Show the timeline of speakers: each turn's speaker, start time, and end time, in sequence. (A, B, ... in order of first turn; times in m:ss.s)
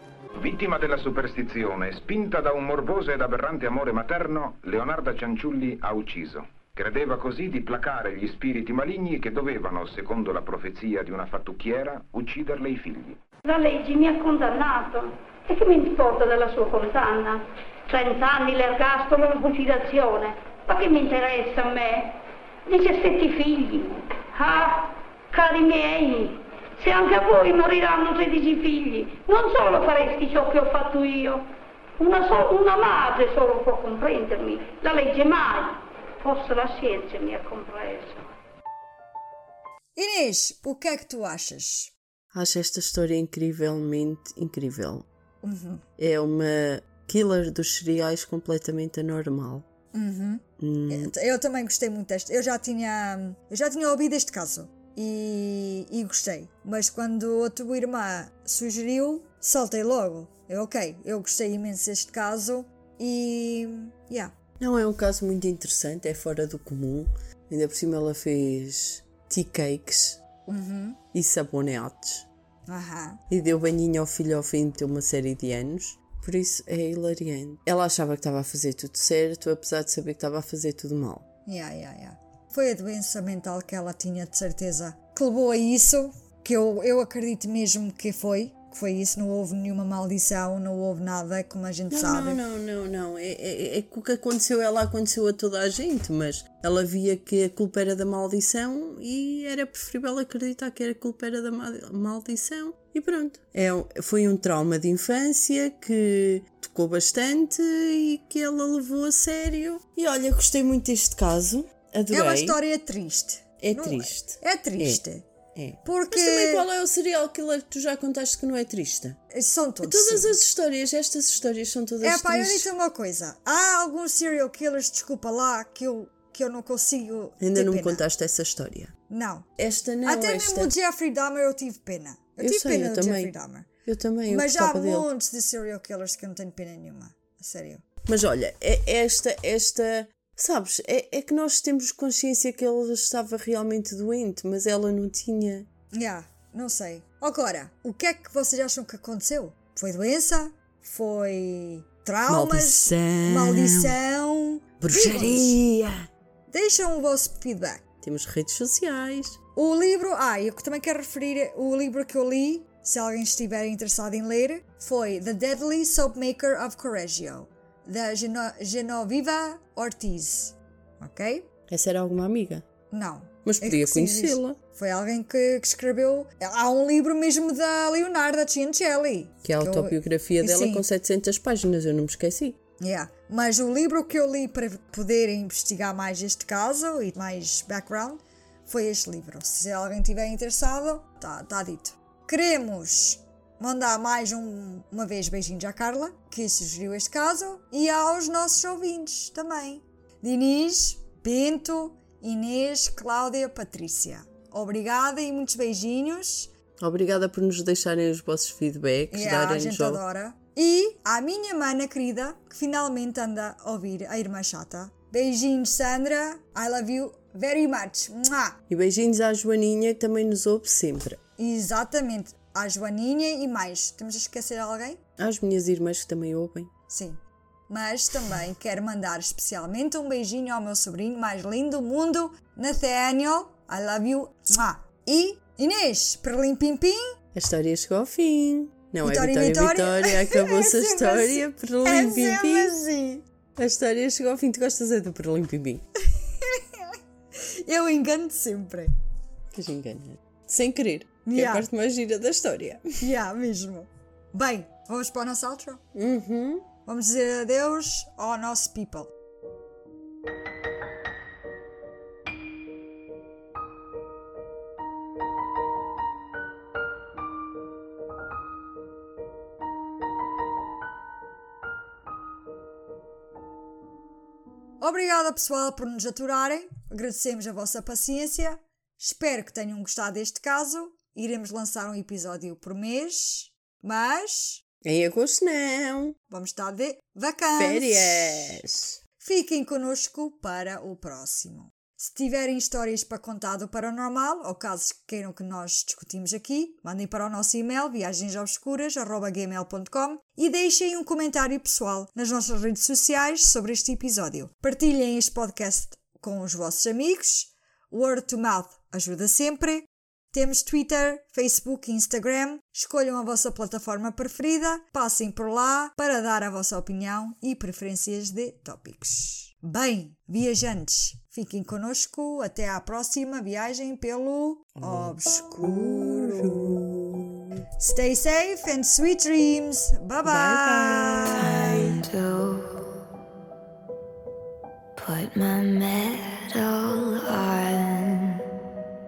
0:00.4-0:13.2 A
0:13.4-0:31.4 B
0:32.0-0:38.3 B
0:40.0-0:41.9 C
0:42.3-0:45.0 D
0:45.4-0:45.8 C
0:46.0-0:49.6 D
0:49.9-1:04.3 C
0:50.6-0:51.1 D
1:04.6-1:10.2 D
1:10.5-1:11.0 C
1:11.1-1:12.3 D
1:12.7-1:13.2 C
1:13.3-1:21.2 D
1:21.4-1:32.4 C
1:31.9-1:52.6 D
1:52.1-1:55.2 C
1:53.6-1:55.0 D
1:55.5-1:59.2 D
1:55.8-1:56.7 C
1:59.3-2:00.3 C
1:59.8-2:02.7 D
2:02.0-2:08.0 C
2:07.4-2:08.9 D
2:09.1-2:13.7 C
2:09.6-2:10.7 D
2:12.4-2:13.3 D
2:13.8-2:15.0 D
2:14.3-2:17.8 C
2:18.1-2:25.7 D
2:25.9-2:35.6 C
2:32.3-2:33.9 D
2:34.8-2:36.1 D
2:36.5-2:37.8 C
2:38.0-2:39.4 D
2:39.6-2:51.4 C
2:51.7-2:52.6 D
2:52.9-3:00.8 C
2:53.4-2:54.6 D
2:59.4-3:02.6 D
3:02.8-3:26.5 C
3:26.8-3:30.0 D
3:29.1-3:38.6 C
3:38.7-3:41.2 D
3:41.4-3:45.0 C
3:45.2-3:46.7 D
3:46.9-3:57.2 C
3:57.3-4:02.8 D
3:59.0-4:03.2 C
4:03.6-4:05.8 D
4:06.1-4:08.9 C
4:09.5-4:13.0 D
4:11.2-4:11.7 C
4:13.0-4:15.8 C
4:15.9-4:16.7 D
4:16.8-4:19.1 C
4:34.8-4:44.6 C
4:44.8-4:46.1 D
4:46.3-4:48.6 C
4:47.6-4:49.0 D
4:49.2-5:26.8 C
5:24.8-5:27.6 D
5:27.8-5:32.0 C
5:30.2-5:32.0 D
5:31.3-5:32.8 E
5:35.0-5:38.4 E